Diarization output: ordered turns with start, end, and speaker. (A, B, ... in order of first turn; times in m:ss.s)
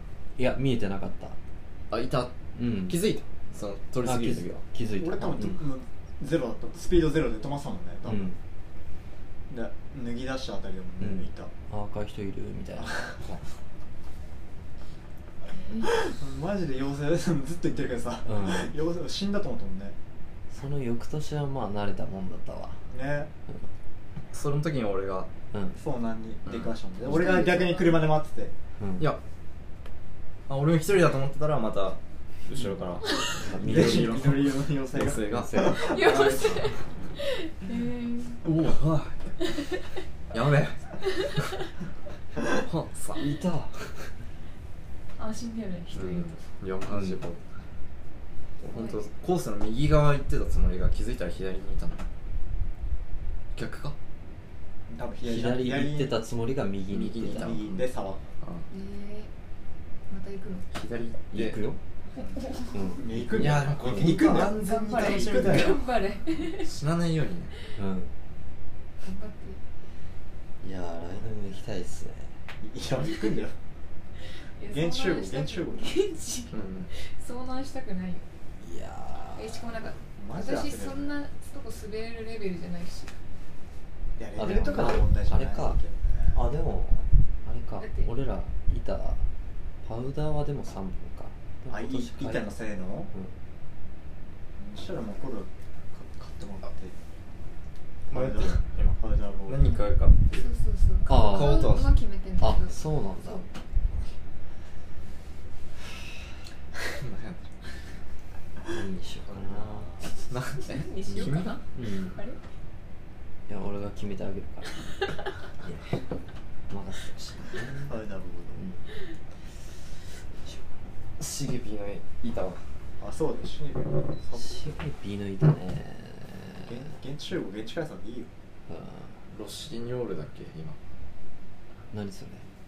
0:00.4-0:01.4 A
0:01.9-0:04.6 B
0:02.6-0:03.0 A
0:04.0-0:05.6 A
0:05.0-0:08.3 C
0:08.1-0:08.4 A
0:09.5-0:11.5 C
0:11.0-0:13.0 A
0:15.5-0:16.1 D
0:15.9-0:20.0 C
0:18.2-0:18.7 A
0:20.5-0:22.8 A
0:22.9-0:23.3 C
0:24.3-0:25.3 B
0:25.5-0:25.8 A
0:25.8-0:28.5 C
0:26.5-0:26.7 B
0:27.0-0:28.0 D
0:28.8-0:29.1 A
0:30.5-0:35.8 B
0:33.4-0:36.1 A
0:33.6-0:36.8 C
0:35.8-0:38.4 D
0:38.4-0:39.3 B
0:40.3-0:41.3 B
0:42.4-0:43.2 B
0:43.2-0:44.1 A
0:45.2-0:46.4 D
0:45.9-0:47.4 B
0:46.9-0:47.2 A
0:48.6-0:52.0 B
0:48.7-0:49.0 D
0:53.6-0:54.0 B
0:54.9-0:56.2 C
0:55.2-0:57.8 A
0:56.9-0:57.8 B
0:57.3-0:58.2 C
0:58.4-0:58.7 B
0:58.7-0:59.3 D
1:00.1-1:00.6 D
1:00.7-1:01.6 B
1:01.3-1:01.8 A
1:02.2-1:02.9 D
1:02.7-1:04.4 A
1:03.0-1:05.8 C
1:03.3-1:05.8 B
1:04.5-1:06.7 D
1:06.5-1:07.5 B
1:07.8-1:08.1 A
1:09.0-1:09.6 D
1:10.6-1:12.4 A
1:12.6-1:13.6 C
1:14.6-1:18.3 D
1:14.7-1:16.0 C
1:16.5-1:16.9 B
1:18.6-1:19.7 A
1:19.4-1:23.1 D
1:20.2-1:21.2 C
1:24.2-1:26.4 C
1:24.4-1:25.8 A
1:26.3-1:29.2 A
1:27.8-1:28.1 D
1:29.8-1:33.3 A
1:31.7-1:33.1 C
1:34.6-1:37.0 C
1:38.1-1:39.7 C
1:38.1-1:40.5 B
1:40.4-1:43.5 D
1:41.1-1:41.8 A
1:41.1-1:42.0 B
1:42.4-1:43.4 A
1:47.0-1:47.4 B
1:48.7-1:50.0 A
1:49.3-1:50.1 C
1:50.3-1:51.6 B
1:50.7-1:52.4 D
1:51.1-1:52.2 A
1:53.5-1:54.9 A
1:55.6-1:56.0 A
1:56.7-1:58.0 A
1:57.8-1:58.6 C
1:58.6-1:58.8 A
2:00.4-2:01.2 A
2:01.2-2:02.6 B
2:03.0-2:04.6 C
2:04.3-2:06.9 A
2:06.6-2:08.3 C
2:08.7-2:09.1 A
2:09.3-2:10.8 B
2:11.9-2:12.5 A